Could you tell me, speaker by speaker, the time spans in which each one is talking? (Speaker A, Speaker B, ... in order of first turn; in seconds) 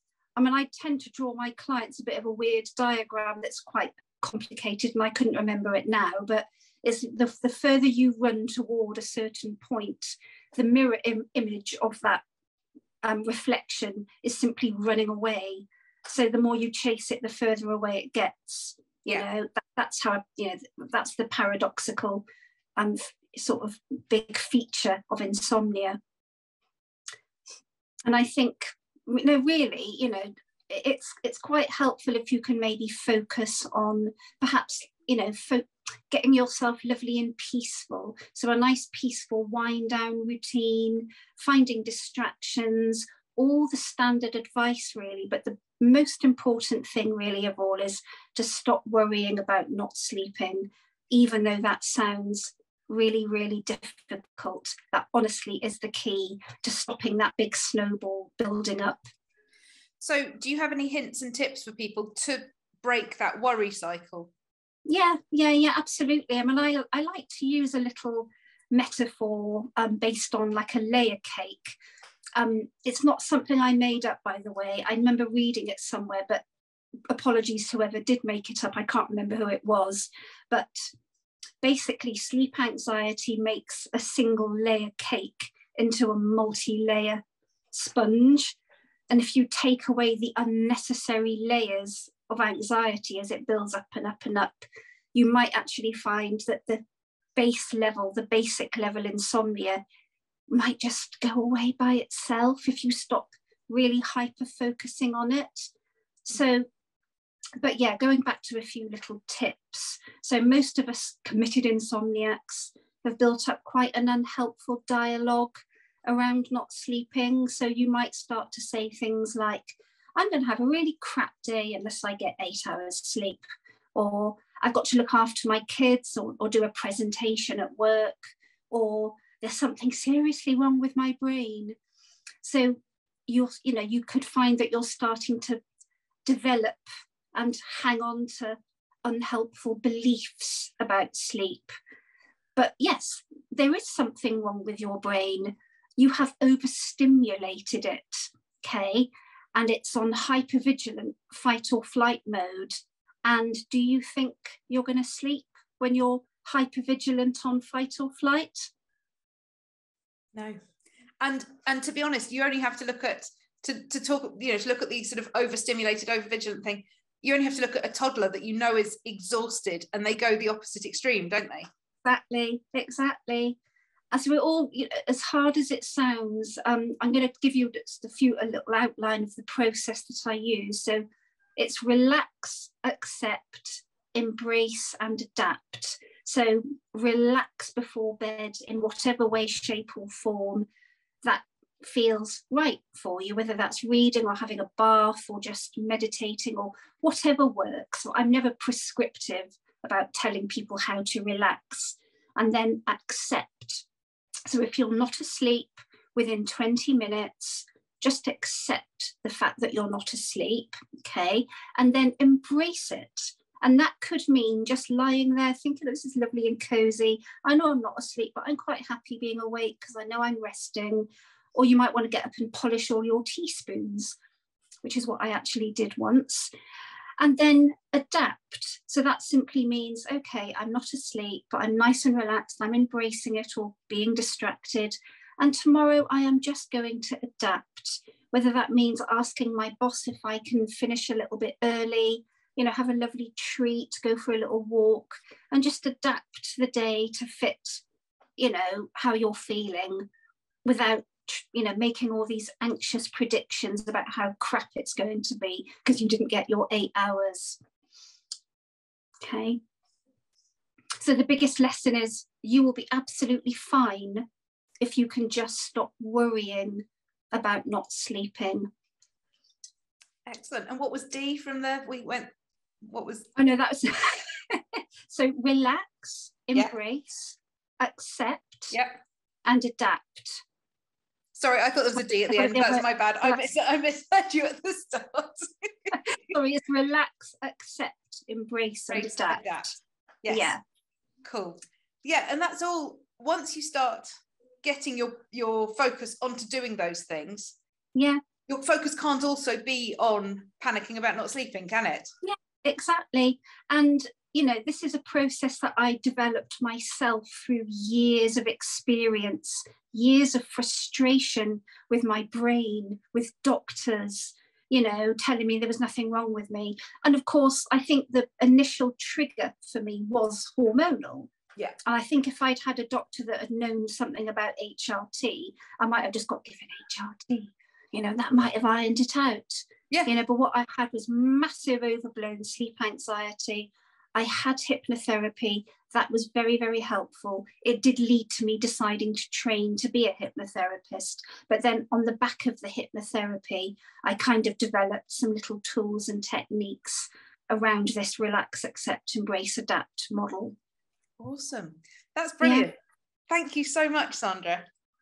Speaker A: 0.3-12.2, 13.0-22.2, 22.8-26.0, 28.0-59.0, 64.8-71.8, 72.3-76.4, 77.1-80.9, 81.6-88.6, 89.1-96.8, 97.3-99.8, 100.5-105.7, 106.2-106.7, 107.6-123.4, 123.9-128.2, 128.7-131.8, 132.4-135.6, 136.2-141.7, 142.6-158.7, 172.0-173.6, 174.1-181.0, 181.6-190.7, 191.2-203.8, 204.5-224.1, 224.8-226.5, 227.2-247.8, 248.4-250.1, 250.6-257.6, 259.2-259.6, 261.0-264.2, 264.8-268.7, 273.4-278.8, 279.4-280.4, 282.2-283.5, 285.9-289.7, 290.3-290.6, 297.9-298.2, 302.2-321.3, 321.9-350.5, 352.4-352.7
Speaker B: 60.0-64.3, 161.2-171.7, 270.3-272.3, 272.8-273.3, 278.7-279.0, 281.4-286.1, 288.9-289.7, 290.2-290.6, 291.2-294.1, 294.6-297.6, 298.5-302.1, 351.2-352.7, 353.3-354.6